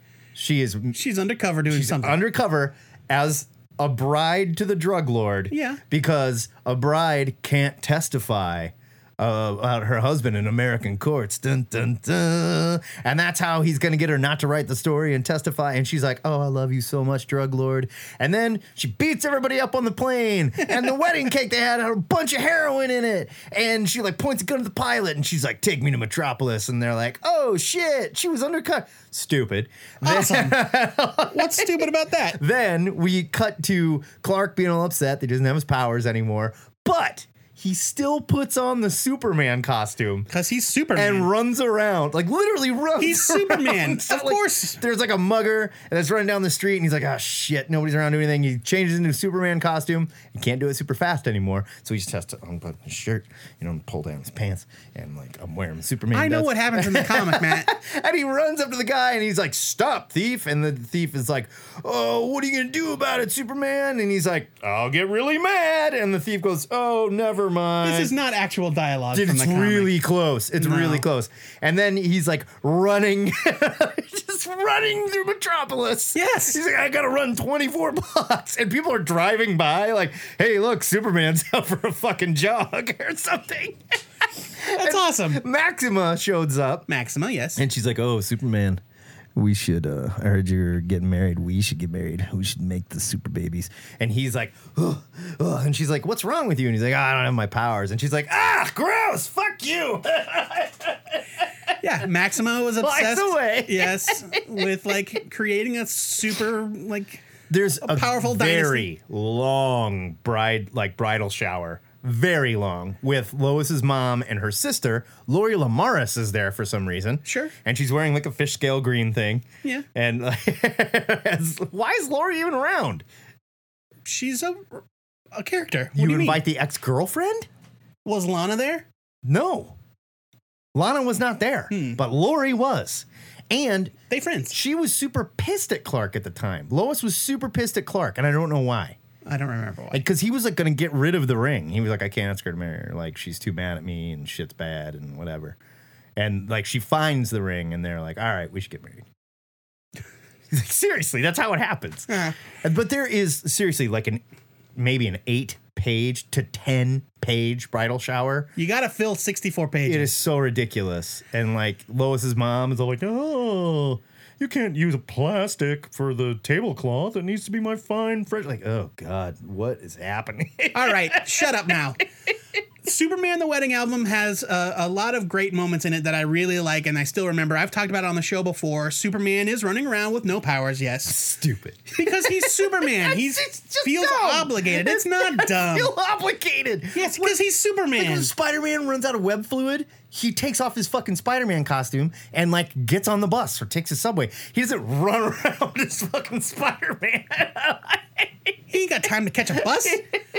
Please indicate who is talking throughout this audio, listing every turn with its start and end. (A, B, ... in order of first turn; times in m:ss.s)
0:00.4-0:01.0 A
0:00.9-0:02.2 B
0:01.7-0:31.7 A
0:05.5-0:05.8 B
0:30.0-0:30.7 B
0:31.3-0:32.4 B
0:32.4-0:40.3 A
0:40.3-0:41.3 B
0:41.0-1:08.1 A
0:43.0-0:44.8 B
0:56.1-0:57.7 B
1:07.8-1:09.9 B
1:09.1-1:24.0 A
1:10.6-1:11.0 B
1:16.2-1:16.6 B
1:24.6-1:26.9 A
1:24.7-1:25.4 B
1:26.9-1:27.6 B
1:27.6-1:28.8 A
1:29.4-1:41.2 A
1:41.8-1:47.2 B
1:42.8-1:44.4 A
1:47.5-2:03.0 A
1:47.8-1:48.9 B
1:57.2-1:57.5 B
2:04.0-2:04.8 B
2:05.4-2:06.4 B
2:06.0-2:07.5 A
2:08.0-2:08.8 B
2:09.2-2:09.8 A
2:10.8-2:14.0 A
2:11.7-2:12.0 B
2:14.1-2:14.6 B
2:14.5-2:19.0 A
2:19.3-2:20.0 B
2:19.9-2:25.6 A
2:26.2-2:29.0 A
2:30.5-2:32.1 A
2:32.1-2:32.4 B
2:32.6-2:34.2 A
2:34.8-2:38.5 A
2:38.6-2:40.2 B
2:39.9-2:51.5 A
2:50.7-2:52.0 B
2:52.8-3:01.2 B
3:01.1-3:07.4 A
3:02.0-3:05.9 B
3:07.0-3:08.3 B
3:08.0-3:18.3 A
3:18.7-3:20.1 B